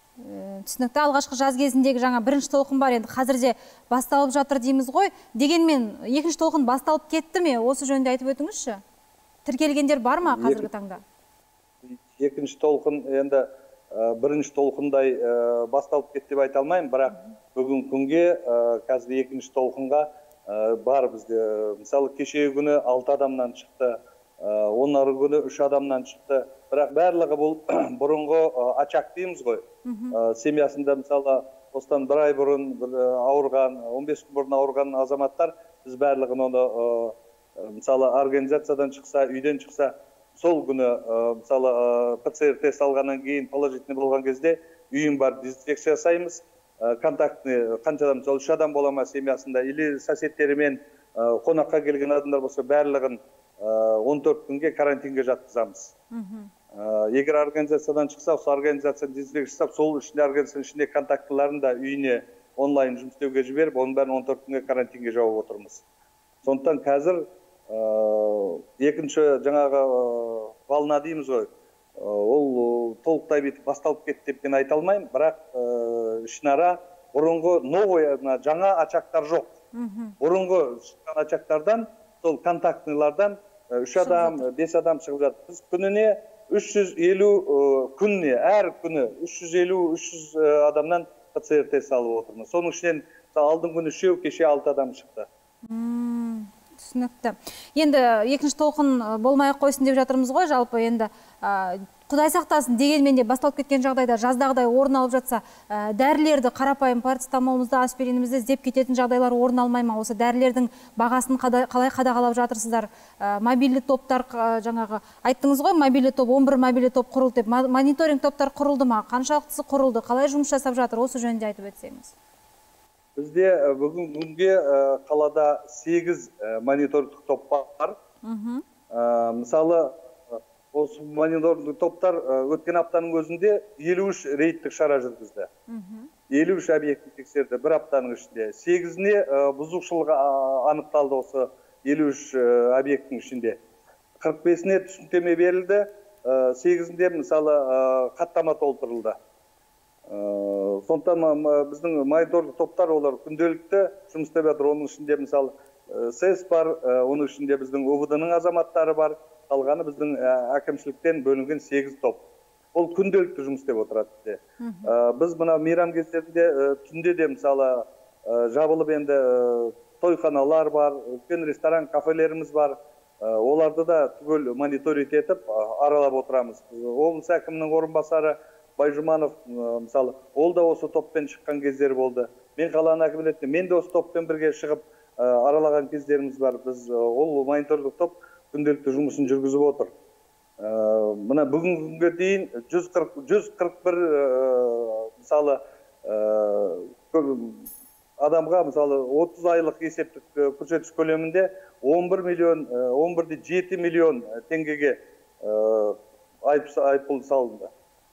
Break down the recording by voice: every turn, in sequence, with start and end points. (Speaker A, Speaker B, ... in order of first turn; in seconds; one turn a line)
Speaker A: 0.2-8.8
Speaker A: 9.4-11.0
Speaker B: 10.2-10.7
Speaker B: 11.8-56.0
Speaker A: 17.1-17.3
Speaker A: 29.9-30.2
Speaker A: 56.1-56.5
Speaker B: 56.7-65.8
Speaker B: 66.4-79.6
Speaker A: 79.7-80.2
Speaker B: 80.2-95.3
Speaker A: 84.0-84.5
Speaker A: 95.7-122.1
Speaker B: 123.2-128.0
Speaker A: 128.2-128.6
Speaker B: 128.9-135.5
Speaker A: 135.7-136.1
Speaker B: 136.3-143.6
Speaker B: 144.2-149.2
Speaker B: 150.1-189.9
Speaker A: 164.6-164.9
Speaker B: 190.6-197.7
Speaker B: 198.2-207.7